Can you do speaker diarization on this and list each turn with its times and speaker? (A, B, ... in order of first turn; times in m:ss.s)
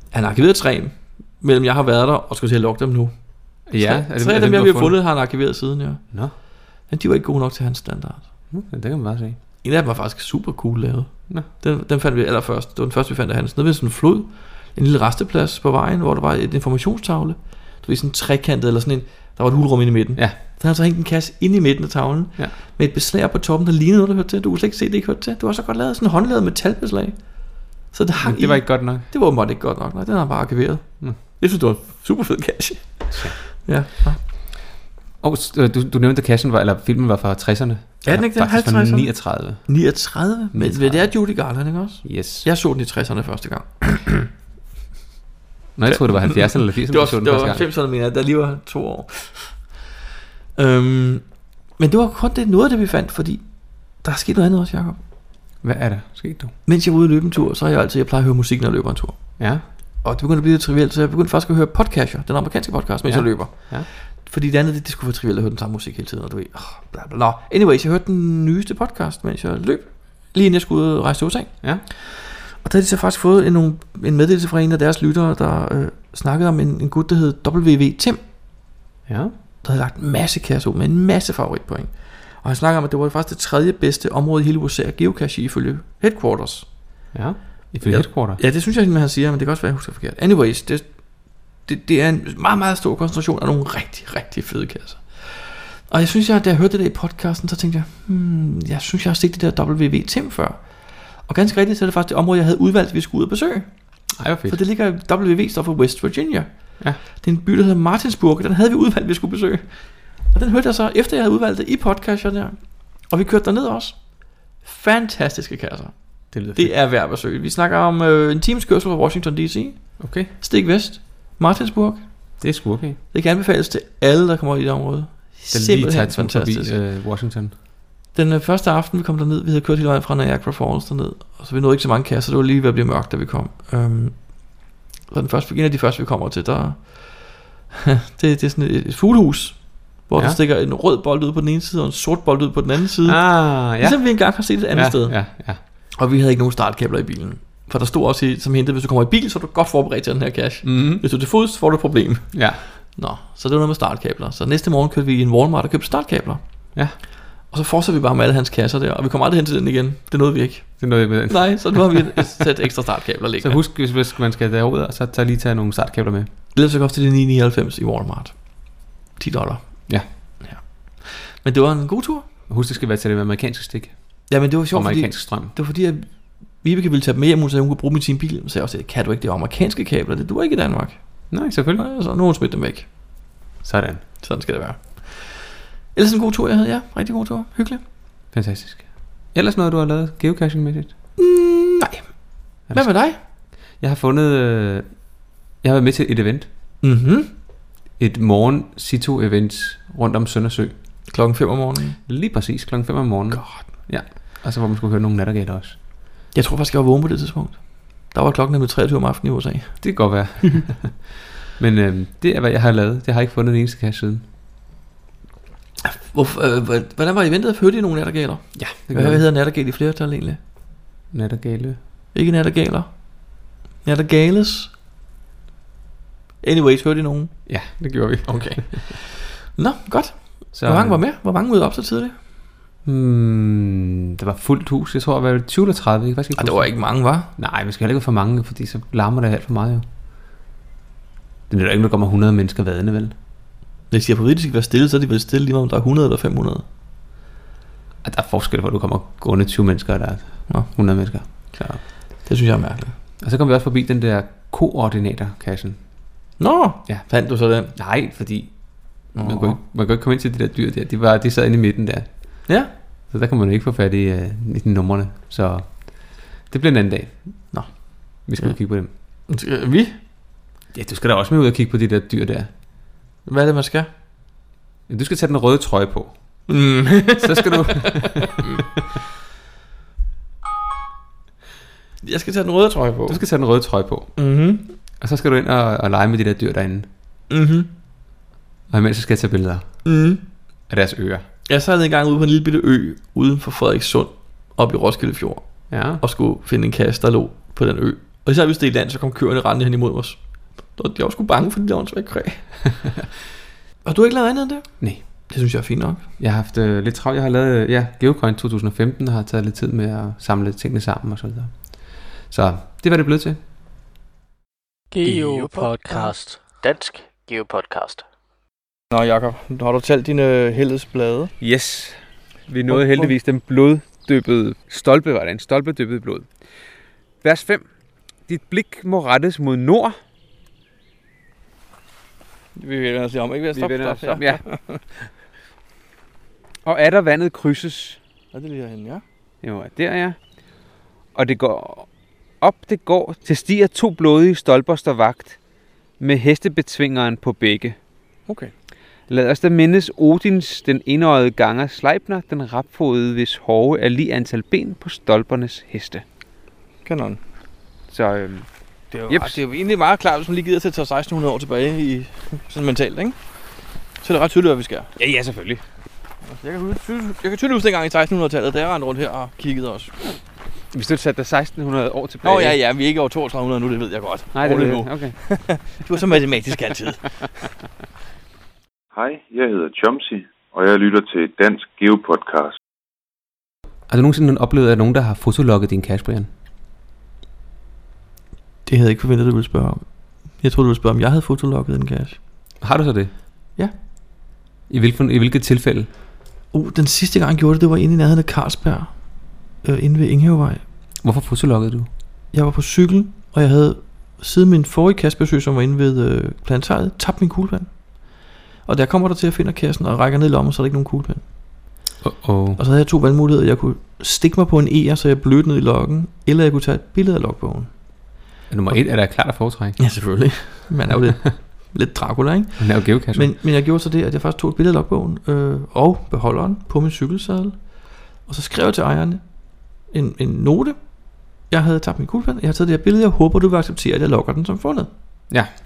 0:00.1-0:08.3 A
0:03.7-0:05.0 B
0:08.5-0:09.4 B
0:09.6-0:34.2 A
0:28.2-0:29.0 B
0:33.1-0:33.6 B
0:35.2-0:39.8 B
0:38.0-0:44.3 A
0:40.5-0:41.2 B
0:42.0-0:42.5 B
0:45.7-0:47.6 B
0:45.8-0:49.7 A
0:50.6-0:55.0 A
0:55.6-0:56.5 B
0:56.6-1:18.7 A
0:59.4-0:59.6 B
1:03.0-1:03.9 B
1:19.1-1:19.3 B
1:19.6-1:26.8 A
1:27.1-1:28.4 B
1:27.8-2:02.5 A
1:44.2-1:44.6 B
1:56.3-1:56.7 B
2:00.0-2:00.3 B
2:02.4-2:03.0 B
2:03.1-2:06.7 A
2:05.5-2:07.5 B
2:08.1-2:43.6 A
2:23.0-2:25.6 B
2:30.6-2:31.0 B
2:32.3-2:32.6 B
2:40.8-2:42.2 B
2:43.4-2:46.3 B
2:46.5-2:52.3 A
2:52.5-2:55.5 B
2:54.3-3:03.3 A
3:01.3-3:01.8 B
3:03.6-3:04.0 B
3:04.2-3:07.8 A
3:08.3-3:10.9 B
3:11.2-3:13.2 A
3:12.7-3:15.0 B
3:15.6-3:16.5 B
3:16.8-3:17.3 A
3:18.0-3:20.7 B
3:21.1-3:22.0 A
3:22.0-3:25.8 B
3:23.3-3:23.6 A
3:26.3-3:30.2 A
3:29.8-3:31.0 B
3:31.6-3:34.2 B
3:35.8-3:40.4 A
3:38.5-3:39.2 B
3:41.1-3:41.8 B
3:42.1-3:44.7 A
3:46.4-3:47.5 A
3:47.5-3:48.9 B
3:48.2-3:52.2 A
3:50.5-3:51.0 B
3:52.8-3:59.8 B
3:56.4-3:57.3 A
4:01.5-4:03.1 B
4:03.9-4:06.6 A
4:08.0-4:11.9 B
4:11.3-4:11.5 A
4:12.2-4:12.9 A
4:13.2-4:15.8 B
4:16.4-4:17.7 A
4:17.7-4:22.6 B
4:19.1-4:19.6 A
4:23.1-4:27.7 B
4:27.5-4:28.6 A
4:28.2-4:28.9 B
4:29.3-4:30.0 A
4:30.7-4:32.5 B
4:33.2-4:33.9 A
4:34.9-4:36.1 B
4:36.5-4:38.6 A
4:37.2-4:38.7 B
4:42.0-4:43.2 A
4:43.1-4:44.1 B
4:44.2-4:44.6 A
4:45.0-4:46.9 B
4:47.3-4:47.7 A
4:48.7-4:49.8 B
4:49.8-4:50.2 A
4:50.7-4:51.2 B
4:51.5-5:02.8 A
4:55.7-4:56.0 B
5:03.8-5:06.0 A
5:06.2-5:13.4 B
5:15.0-5:18.0 C
5:15.2-5:15.4 D
5:18.9-5:21.3 D
5:21.4-5:26.3 B
5:22.7-5:23.0 D
5:27.2-5:27.6 B
5:28.3-5:30.0 B
5:32.6-5:34.8 D
5:33.5-5:34.4 B
5:36.6-5:38.0 B
5:38.3-5:39.0 D
5:39.4-5:40.2 B
5:41.1-5:45.4 B
5:46.0-5:47.8 B
5:48.3-5:48.5 D
5:49.1-5:56.0 B
5:56.8-5:57.2 D
5:57.9-5:59.4 B
5:59.1-6:03.1 D
6:04.0-6:04.9 A
6:04.2-6:04.6 D
6:05.0-6:05.6 B
6:06.4-6:09.9 D
6:07.2-6:09.8 A
6:10.7-6:12.6 B
6:12.2-6:15.6 D
6:12.2-6:12.6 A
6:14.3-6:15.2 B
6:14.4-6:14.7 A
6:15.7-6:17.0 A
6:18.9-6:22.5 E
6:23.9-6:26.3 B
6:28.6-6:32.2 A
6:32.6-6:33.1 B
6:34.7-6:35.9 B
6:36.5-6:40.6 A
6:41.0-6:41.9 B
6:42.3-6:51.2 A
6:52.0-6:52.6 B
6:52.6-6:57.7 A
6:58.5-6:59.8 B
6:59.8-7:07.6 A
7:02.6-7:03.3 B
7:08.2-7:14.9 A